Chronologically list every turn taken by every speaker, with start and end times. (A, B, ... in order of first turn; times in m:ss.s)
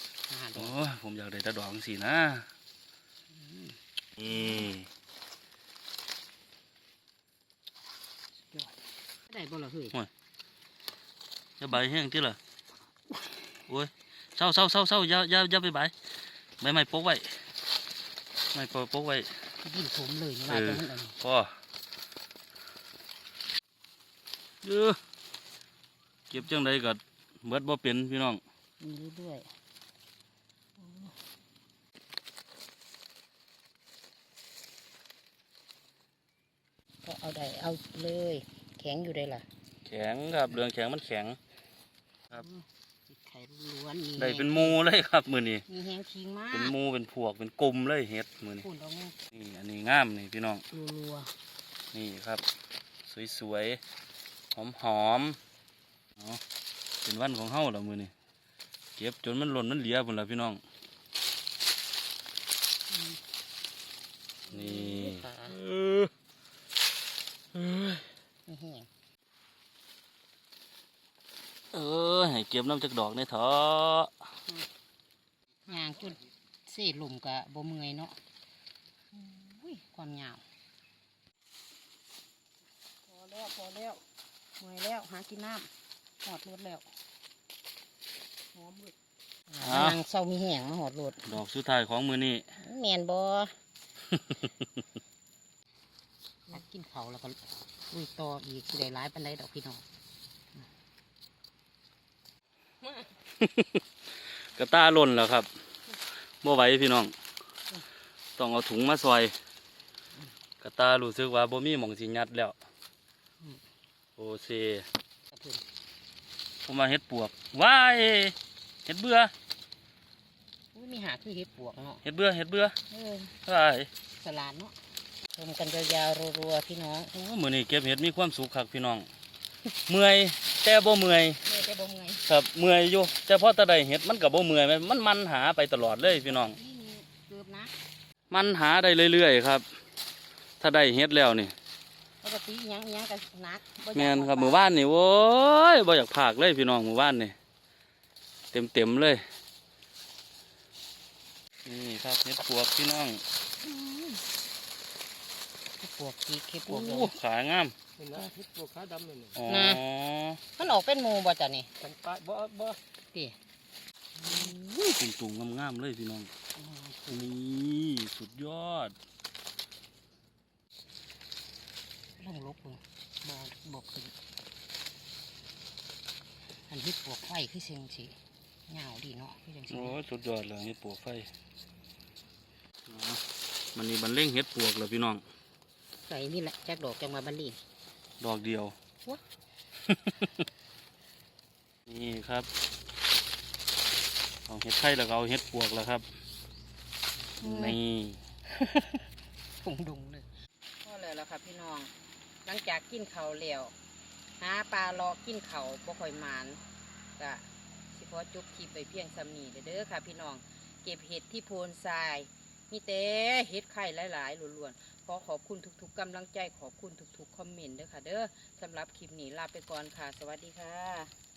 0:00.3-0:00.7 A
0:00.6-0:02.5 B
0:03.3-0:03.8 A
0:04.2-0:04.9 B
0:09.3-0:10.0 A
0:11.6-0:12.4 B
0:13.7-0:15.9 B
0:16.6-0:17.4 B
0:18.5-0:19.3 B
0:19.6-0:21.2 A
0:20.5-0:21.6 B
0:24.6-0:25.0 B
0:26.3-0:28.4 B
0:28.8-0:29.5 A
0:30.8-0:31.1 A
0:37.0-0:39.4 A
0:39.8-0:41.4 B
0:42.3-0:44.8 A
0:44.2-0:45.6 B
0:45.7-0:46.7 A
0:46.5-0:48.6 B
0:48.6-0:49.2 A
0:49.3-0:50.6 B
0:50.7-0:51.3 A
0:51.9-0:52.4 B
0:53.0-0:53.8 B
0:54.5-0:55.4 B
0:57.0-0:58.1 B
0:59.0-1:00.6 B
1:02.9-1:03.2 A
1:04.5-1:05.6 A
1:04.5-1:06.1 B
1:07.5-1:08.1 B
1:08.5-1:08.9 A
1:11.7-1:14.1 B
1:15.6-1:18.2 A
1:19.1-1:20.4 A
1:23.1-1:24.0 A
1:24.6-1:25.7 A
1:26.2-1:26.8 A
1:28.5-1:28.9 A
1:29.5-1:31.3 A
1:29.6-1:30.0 B
1:31.2-1:32.5 B
1:32.6-1:33.5 A
1:34.1-1:34.7 B
1:36.5-1:39.8 A
1:43.4-1:43.8 B
1:44.6-1:45.5 B
1:46.4-1:47.1 B
1:48.4-1:49.3 B
1:50.6-1:52.6 B
1:54.2-1:54.9 B
1:55.3-1:55.6 A
1:56.6-1:58.3 B
1:58.8-1:59.3 B
2:00.7-2:02.0 A
2:02.0-2:02.8 B
2:02.9-2:03.3 A
2:03.4-2:03.9 B
2:04.2-2:04.7 A
2:05.3-2:07.1 A
2:07.1-2:09.1 B
2:09.9-2:11.4 B
2:11.4-2:12.2 A
2:12.2-2:16.6 B
2:16.0-2:17.7 A
2:18.3-2:19.6 B
2:20.6-2:21.5 B
2:22.2-2:24.6 A
2:23.9-2:27.3 B
2:28.5-2:29.2 B
2:31.6-2:33.2 B
2:33.6-2:34.2 A
2:35.8-2:37.1 A
2:36.7-2:37.7 B
2:38.0-2:39.4 C
2:39.4-2:40.4 B
2:39.4-2:39.8 A
2:40.6-2:41.7 A
2:41.8-2:42.8 C
2:44.2-2:45.0 A
2:45.0-2:46.3 B
2:46.6-2:47.3 A
2:47.1-2:49.0 B
2:52.2-2:54.1 A
2:56.7-2:58.2 A
2:58.7-3:00.0 A
2:59.7-3:01.3 B
3:02.9-3:03.2 B
3:03.7-3:05.2 B
3:06.0-3:07.6 A
3:08.2-3:08.7 B
3:09.9-3:10.3 B
3:11.8-3:12.5 B
3:14.5-3:16.0 B
3:17.4-3:17.8 A
3:17.4-3:18.2 B
3:18.5-3:19.1 A
3:19.6-3:20.3 A
3:20.8-3:21.9 A
3:22.4-3:23.7 A
3:24.4-3:26.6 A
3:27.2-3:41.1 A